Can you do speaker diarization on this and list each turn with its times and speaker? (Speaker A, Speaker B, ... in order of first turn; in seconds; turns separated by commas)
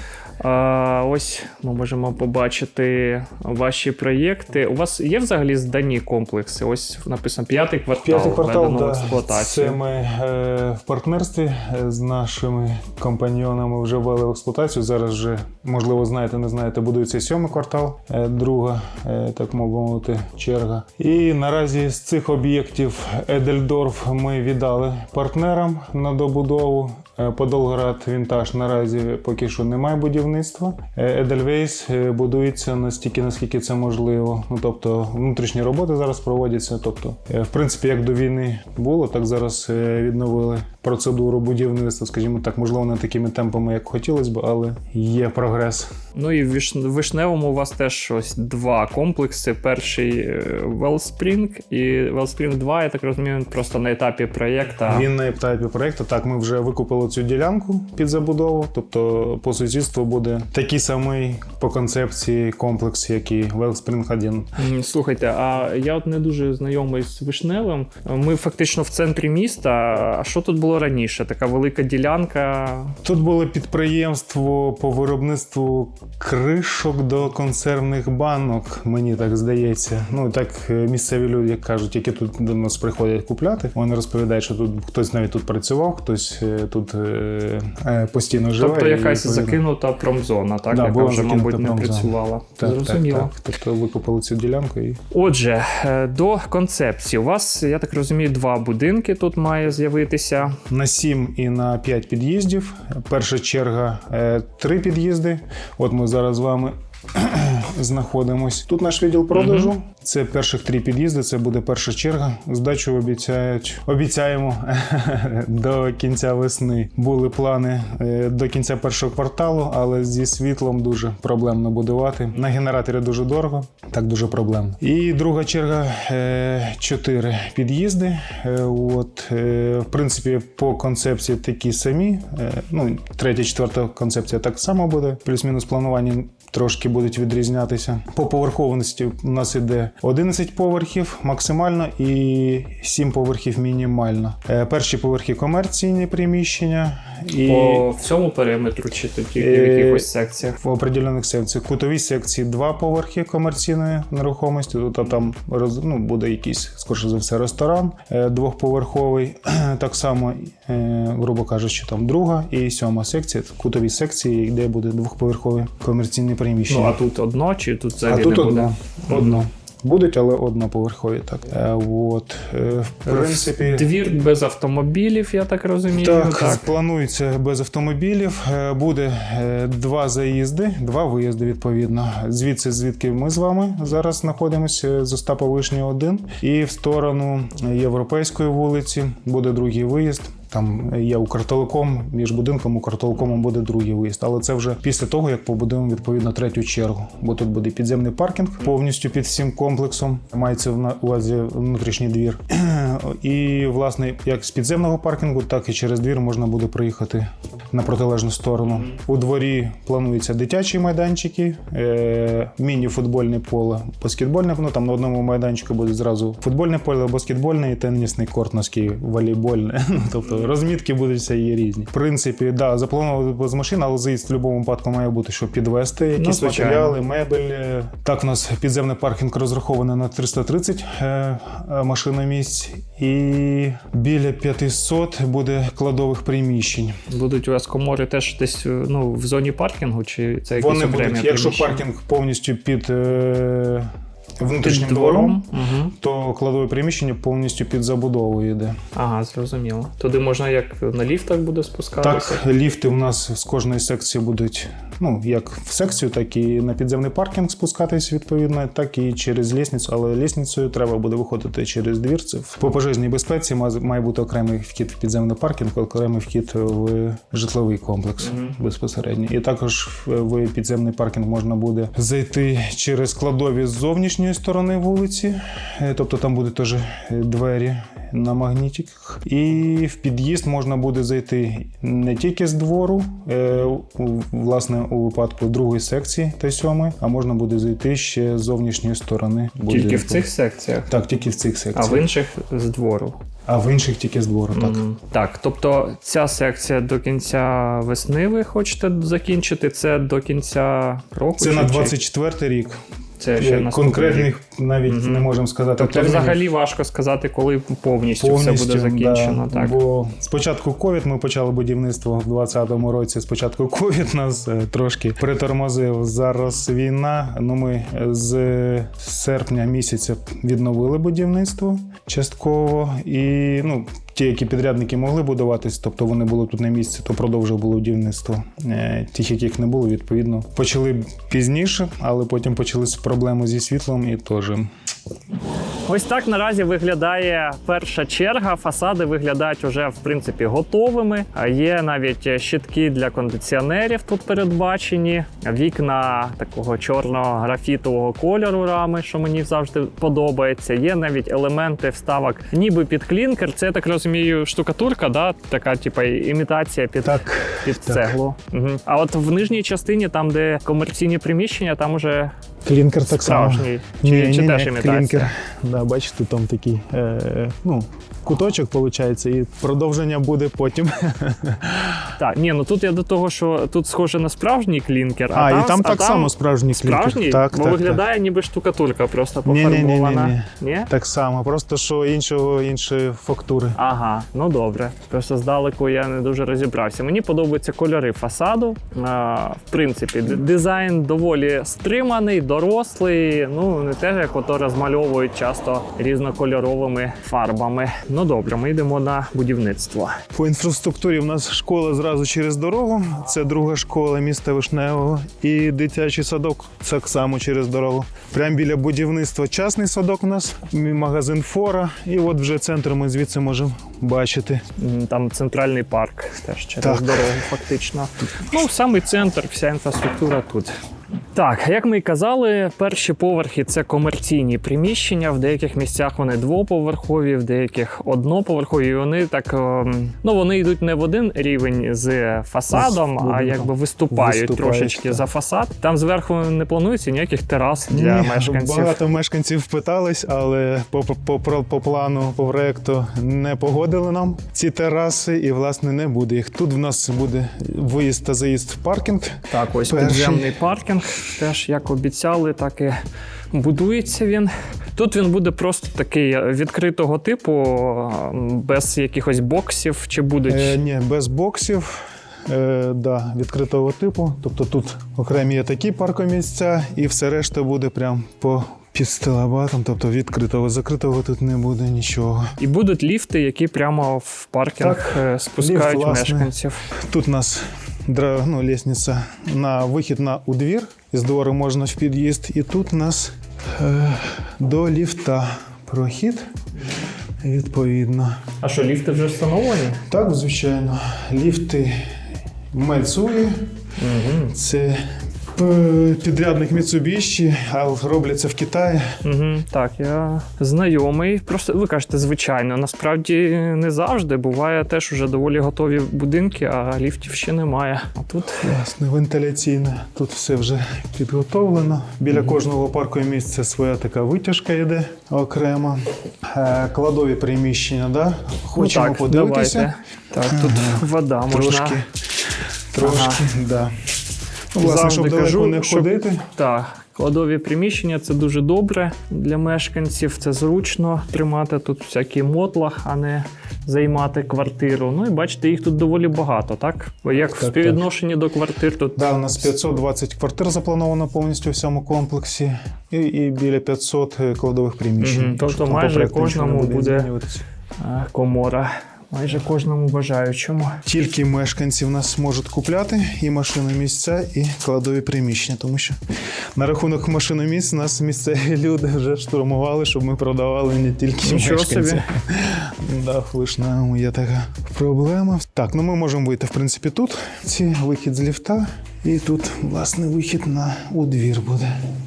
Speaker A: 0.4-9.8, Speaker B: 8.0-45.9, Speaker A: 46.1-55.1, Speaker B: 54.9-64.5, Speaker A: 64.6-73.0, Speaker B: 73.0-89.6, Speaker A: 88.6-93.3, Speaker B: 90.7-95.0, Speaker A: 95.1-100.6, Speaker B: 100.7-147.9, Speaker A: 109.3-109.7, Speaker A: 147.4-150.6, Speaker B: 149.4-150.1, Speaker B: 150.6-167.0, Speaker A: 166.7-169.4, Speaker B: 168.1-173.9, Speaker A: 173.1-176.7, Speaker B: 175.9-237.0, Speaker A: 226.2-227.0, Speaker A: 237.1-241.8, Speaker B: 240.6-245.4, Speaker A: 244.6-245.9, Speaker B: 246.0-248.8, Speaker A: 248.9-252.4, Speaker B: 252.0-290.3, Speaker A: 268.2-268.6, Speaker A: 289.7-290.9, Speaker B: 290.9-292.1, Speaker A: 291.7-293.2, Speaker B: 293.5-294.8, Speaker A: 294.5-301.9, Speaker B: 301.4-302.8, Speaker A: 303.2-304.3, Speaker B: 303.4-306.4, Speaker A: 304.9-309.8, Speaker B: 308.2-334.7, Speaker A: 335.9-362.4, Speaker B: 357.0-358.2, Speaker B: 362.6-372.1, Speaker A: 363.1-365.3, Speaker A: 372.2-380.9, Speaker B: 375.3-378.0, Speaker B: 379.4-383.8, Speaker A: 383.8-400.2, Speaker B: 400.3-414.6, Speaker A: 414.8-420.8, Speaker B: 416.8-417.3, Speaker A: 421.3-439.0, Speaker B: 432.7-435.2, Speaker B: 437.9-450.6, Speaker A: 449.5-453.0, Speaker A: 453.5-460.8, Speaker B: 460.5-472.6, Speaker A: 472.6-476.8, Speaker B: 474.8-476.5, Speaker B: 477.1-486.5, Speaker B: 487.4-488.4, Speaker A: 488.6-490.0, Speaker B: 490.1-492.1, Speaker B: 492.7-493.6, Speaker A: 494.0-494.5, Speaker B: 494.5-495.0, Speaker B: 495.6-499.2, Speaker A: 499.2-508.6, Speaker B: 508.6-519.9, Speaker A: 518.8-522.0, Speaker B: 520.5-522.2, Speaker B: 522.9-523.9, Speaker A: 523.0-523.5, Speaker B: 524.7-526.5, Speaker A: 524.8-539.3, Speaker B: 537.5-538.0, Speaker B: 539.2-547.6, Speaker A: 545.2-547.3, Speaker A: 548.0-551.0, Speaker B: 551.0-556.2, Speaker B: 556.8-571.9, Speaker A: 561.4-562.2